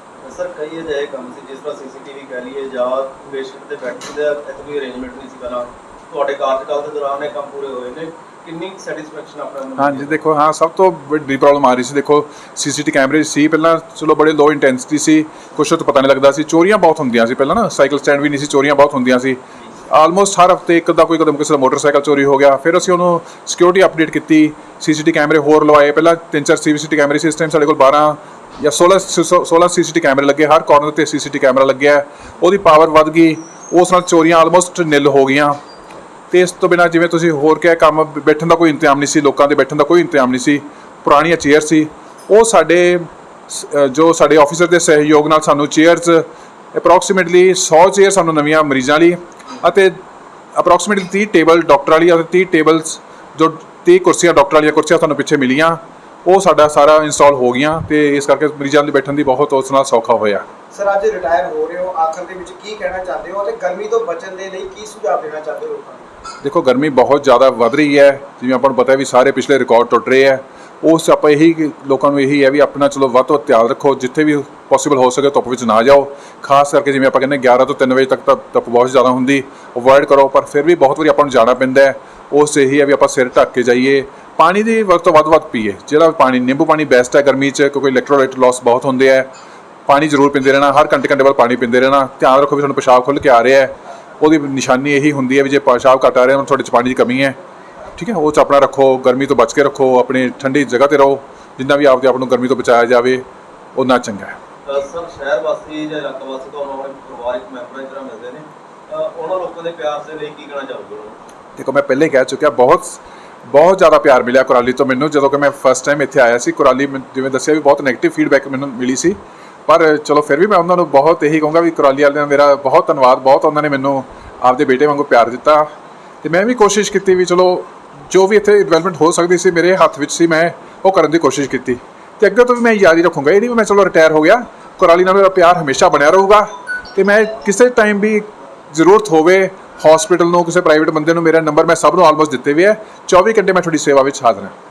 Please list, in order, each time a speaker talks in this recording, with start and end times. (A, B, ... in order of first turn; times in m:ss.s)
0:00.2-0:10.2 A
0:09.8-0:35.6 B
0:36.3-0:50.0 B
0:50.6-1:00.4 B
1:00.7-1:06.0 C
1:06.4-1:29.3 B
1:29.9-1:37.4 B
1:38.0-1:43.2 B
1:43.8-1:44.4 B
1:44.6-1:51.2 A
1:51.6-2:05.7 B
2:06.2-2:24.5 B